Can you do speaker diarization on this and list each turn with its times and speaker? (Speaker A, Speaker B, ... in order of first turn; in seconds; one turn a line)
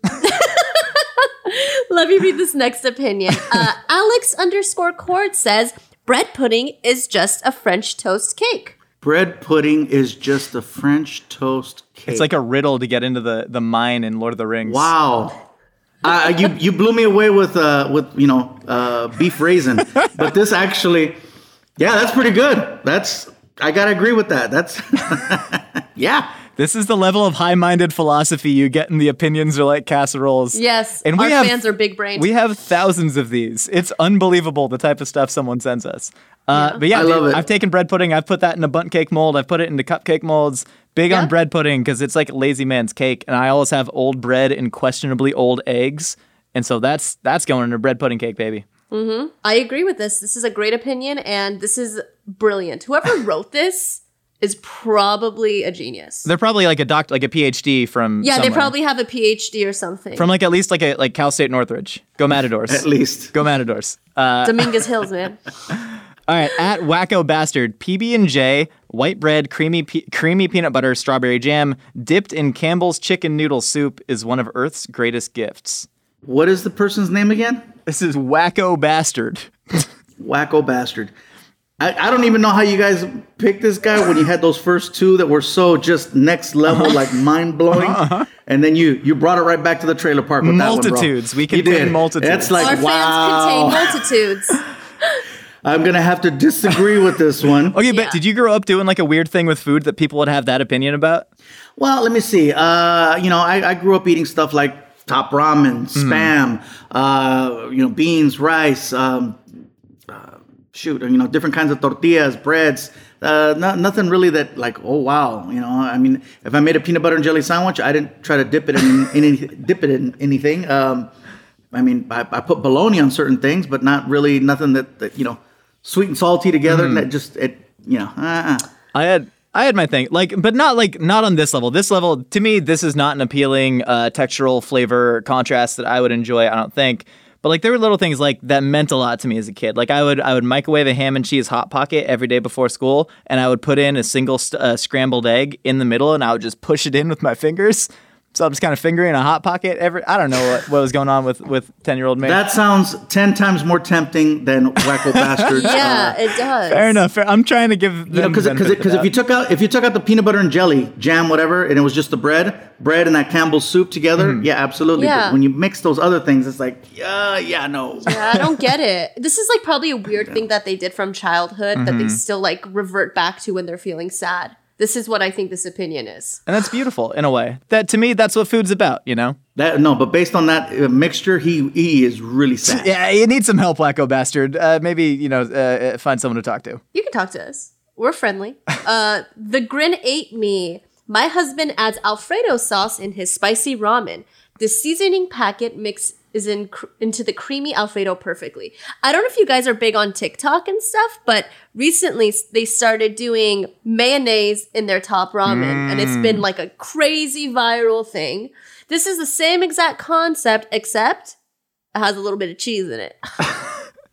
Speaker A: 0.2-8.8
Speaker B: 9.0-12.3
Speaker C: 12.1-14.9
Speaker B: 14.7-15.4
Speaker B: 16.0-21.2
Speaker B: 21.8-26.3
Speaker C: 26.6-31.6
Speaker A: 30.5-32.3
Speaker C: 32.1-48.7
Speaker A: 36.5-36.8
Speaker B: 36.9-37.5
Speaker A: 48.9-56.3
Speaker C: 56.3-58.7
Speaker A: 58.2-60.3
Speaker C: 60.2-64.8
Speaker B: 62.7-63.4
Speaker A: 64.4-65.4
Speaker C: 66.3-75.9
Speaker B: 76.2-77.7
Speaker C: 77.9-79.9
Speaker B: 80.2-81.1
Speaker B: 81.8-94.0
Speaker C: 86.7-87.1
Speaker C: 87.7-88.3
Speaker C: 90.4-92.8
Speaker A: 92.6-94.6
Speaker B: 95.6-97.8
Speaker C: 97.7-101.3
Speaker A: 97.9-98.2
Speaker B: 101.8-109.4
Speaker C: 106.0-106.3
Speaker B: 110.1-121.1
Speaker B: 121.7-128.7
Speaker C: 126.7-127.0
Speaker C: 128.9-152.4
Speaker B: 152.2-156.2
Speaker C: 155.1-156.0
Speaker A: 155.5-157.0
Speaker C: 156.7-159.1
Speaker B: 158.1-168.3
Speaker C: 164.2-164.4
Speaker A: 165.0-165.4
Speaker A: 168.0-176.4
Speaker C: 171.8-172.2
Speaker C: 176.5-179.4
Speaker B: 179.6-182.9
Speaker C: 182.7-186.8
Speaker A: 186.9-211.4
Speaker C: 205.5-206.4
Speaker A: 211.9-213.2